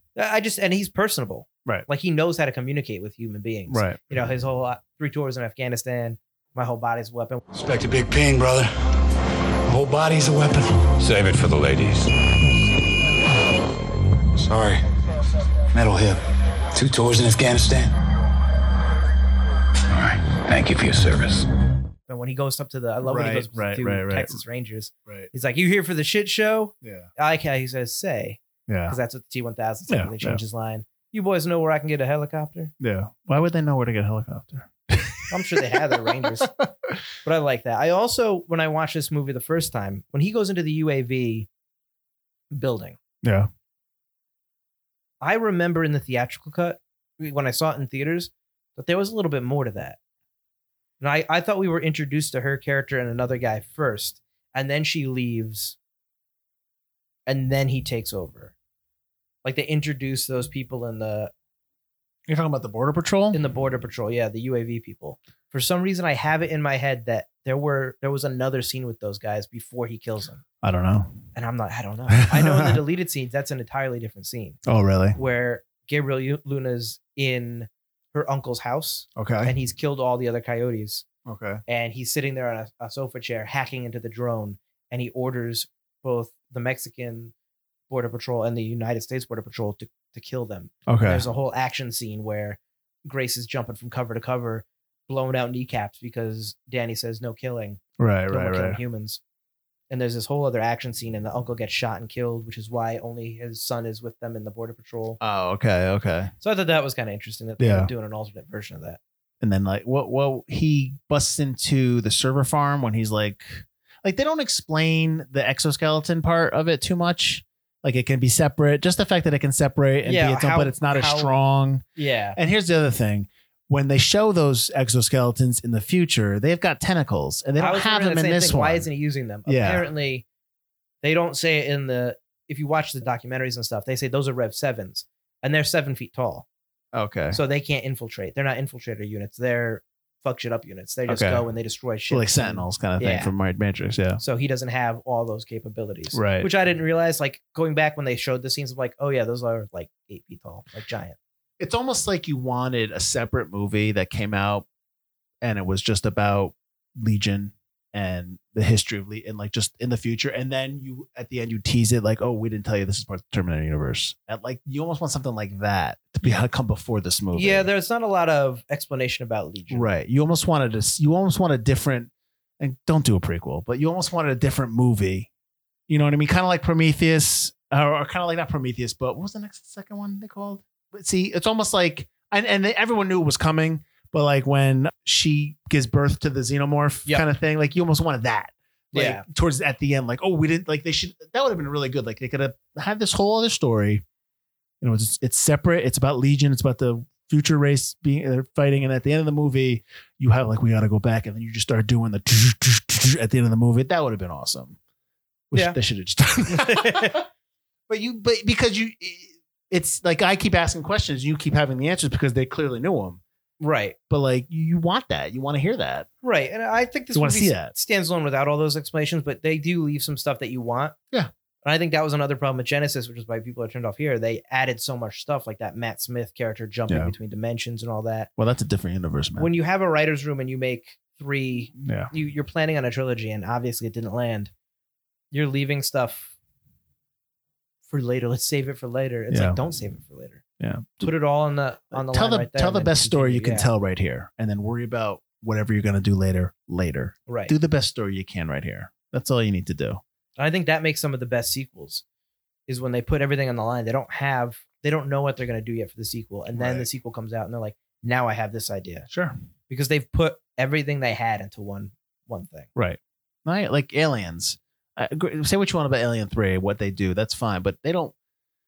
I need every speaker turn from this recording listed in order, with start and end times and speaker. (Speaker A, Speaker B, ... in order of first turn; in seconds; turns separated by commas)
Speaker A: 0.1-7.4, Speaker B: 3.7-4.0, Speaker C: 7.5-8.7, Speaker C: 9.7-12.3, Speaker C: 14.3-14.9, Speaker C: 15.7-17.9, Speaker C: 19.9-21.5, Speaker A: 22.1-32.7, Speaker B: 23.0-24.4, Speaker B: 26.8-27.1, Speaker B: 28.7-29.0, Speaker B: 29.9-30.4, Speaker B: 32.8-37.0, Speaker A: 35.3-36.5, Speaker A: 37.2-41.5, Speaker A: 42.5-43.0, Speaker B: 43.2-43.5, Speaker A: 45.2-50.0, Speaker A: 51.0-55.8, Speaker A: 57.3-58.5, Speaker A: 59.4-61.3, Speaker B: 62.3-63.4, Speaker A: 63.3-70.4, Speaker B: 70.6-71.2, Speaker A: 71.3-74.6, Speaker B: 72.1-72.8, Speaker B: 74.7-75.2, Speaker A: 75.1-81.0, Speaker B: 79.2-79.5, Speaker B: 81.2-81.6, Speaker A: 81.7-87.3, Speaker A: 87.9-99.2, Speaker B: 90.9-91.2, Speaker B: 98.0-98.8, Speaker A: 99.9-105.2, Speaker B: 105.2-106.3, Speaker A: 106.4-109.0, Speaker B: 107.6-107.9, Speaker B: 109.4-128.9, Speaker A: 120.0-121.4, Speaker A: 122.0-122.4, Speaker A: 127.6-130.2, Speaker B: 129.4-129.9, Speaker A: 131.0-136.4, Speaker B: 136.9-137.4, Speaker A: 137.3-143.3, Speaker B: 141.1-141.4, Speaker B: 142.1-144.2, Speaker A: 144.2-151.2, Speaker B: 146.1-146.5, Speaker B: 151.6-154.7, Speaker B: 155.4-167.7, Speaker A: 167.3-169.9, Speaker B: 169.7-175.3, Speaker B: 175.9-194.0, Speaker A: 188.9-189.2, Speaker B: 194.8-204.8, Speaker B: 205.5-207.2, Speaker A: 206.5-207.2, Speaker B: 207.9-213.2, Speaker A: 213.6-213.9, Speaker B: 214.1-216.1, Speaker A: 216.2-220.9, Speaker B: 217.1-217.7, Speaker A: 221.6-228.3, Speaker B: 226.9-227.1, Speaker B: 228.4-229.5, Speaker A: 229.4-234.5, Speaker B: 231.8-232.1, Speaker A: 235.3-236.3, Speaker A: 237.9-240.4, Speaker B: 239.3-239.6, Speaker B: 240.6-241.1, Speaker A: 241.0-243.7, Speaker B: 241.9-250.0, Speaker A: 247.3-247.5, Speaker A: 250.4-252.0, Speaker A: 252.7-259.1, Speaker B: 256.5-256.9, Speaker B: 259.1-259.3, Speaker A: 259.7-262.7, Speaker B: 262.8-268.1